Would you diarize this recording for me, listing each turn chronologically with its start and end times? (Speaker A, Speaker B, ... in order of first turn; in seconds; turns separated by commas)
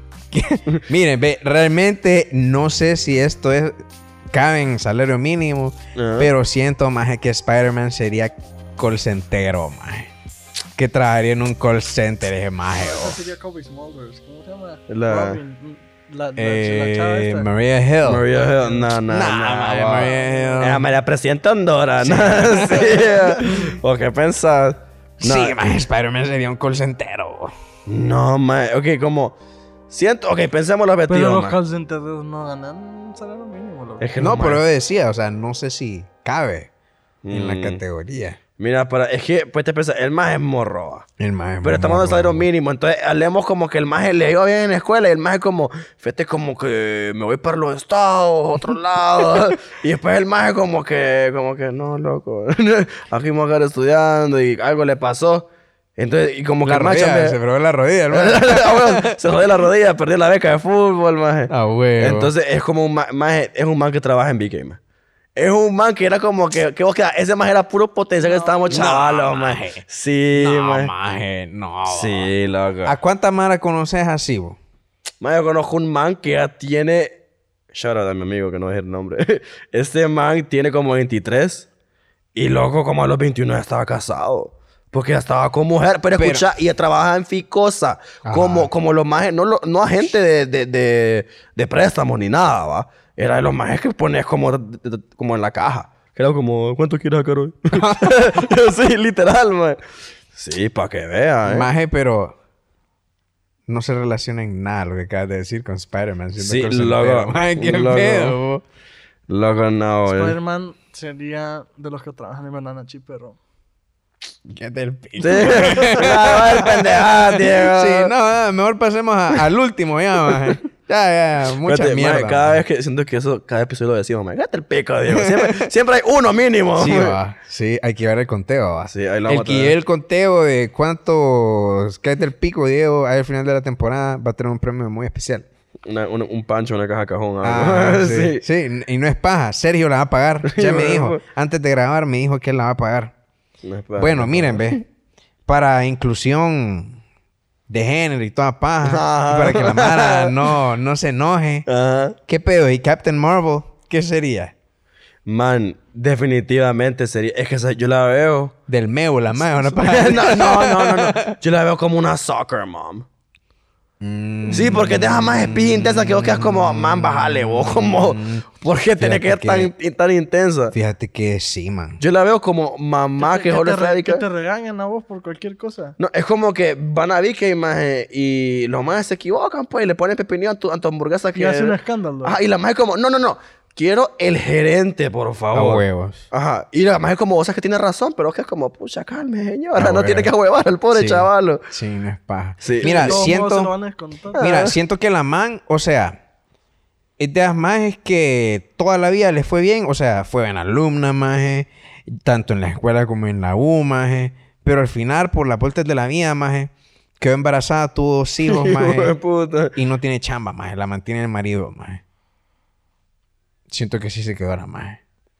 Speaker A: 0.3-3.8, Speaker A: 4.3-10.1, Speaker B: 5.9-6.3, Speaker A: 10.8-13.2, Speaker C: 12.8-17.5, Speaker B: 14.9-15.4, Speaker A: 16.4-18.3, Speaker B: 18.0-25.6, Speaker C: 18.4-18.9, Speaker A: 19.1-20.9, Speaker C: 19.9-20.8, Speaker A: 22.0-23.3, Speaker C: 22.6-23.7, Speaker A: 25.2-27.5, Speaker B: 27.9-29.4, Speaker B: 29.9-31.6, Speaker C: 31.1-34.1, Speaker B: 34.0-34.6, Speaker A: 34.2-36.7, Speaker B: 37.2-37.8, Speaker A: 37.3-38.4, Speaker B: 38.6-41.1, Speaker A: 41.2-42.5, Speaker B: 41.6-57.4, Speaker A: 56.6-59.5, Speaker B: 58.1-64.8, Speaker A: 61.5-62.3, Speaker B: 65.3-70.9, Speaker C: 68.2-68.9, Speaker A: 68.7-69.8, Speaker A: 70.3-72.3, Speaker B: 71.9-72.9, Speaker A: 72.8-74.6, Speaker B: 75.2-77.2, Speaker B: 77.7-81.7, Speaker B: 82.3-99.8, Speaker A: 86.2-86.5, Speaker A: 88.2-88.7, Speaker A: 97.7-98.5, Speaker B: 100.3-101.7, Speaker A: 101.4-102.3, Speaker A: 103.7-108.6, Speaker B: 106.4-108.4, Speaker B: 109.3-110.4, Speaker C: 110.1-113.4, Speaker A: 114.5-122.6, Speaker B: 115.2-118.1, Speaker B: 120.3-120.5, Speaker B: 121.6-127.2, Speaker A: 125.1-125.7, Speaker A: 126.7-135.4, Speaker B: 128.9-129.7, Speaker B: 135.8-138.4, Speaker A: 137.4-143.1, Speaker B: 140.5-141.2, Speaker B: 143.6-144.8, Speaker A: 144.0-144.8, Speaker A: 145.5-147.0, Speaker A: 147.7-151.7, Speaker B: 148.8-150.5, Speaker B: 151.7-152.2, Speaker A: 152.3-154.5, Speaker B: 155.2-158.5, Speaker A: 158.7-161.3, Speaker B: 159.7-163.1, Speaker A: 164.0-168.4, Speaker B: 164.5-170.7, Speaker A: 169.0-169.7, Speaker A: 170.7-172.0, Speaker B: 172.0-174.2, Speaker C: 173.2-175.9, Speaker B: 176.0-191.6, Speaker C: 181.3-182.4, Speaker A: 185.5-186.3, Speaker A: 189.8-190.3, Speaker A: 190.9-193.7, Speaker B: 192.6-193.3, Speaker C: 192.8-194.4, Speaker B: 194.3-194.7, Speaker A: 194.3-196.2, Speaker A: 197.2-209.1, Speaker B: 208.5-209.8, Speaker A: 209.7-212.0, Speaker A: 213.7-215.0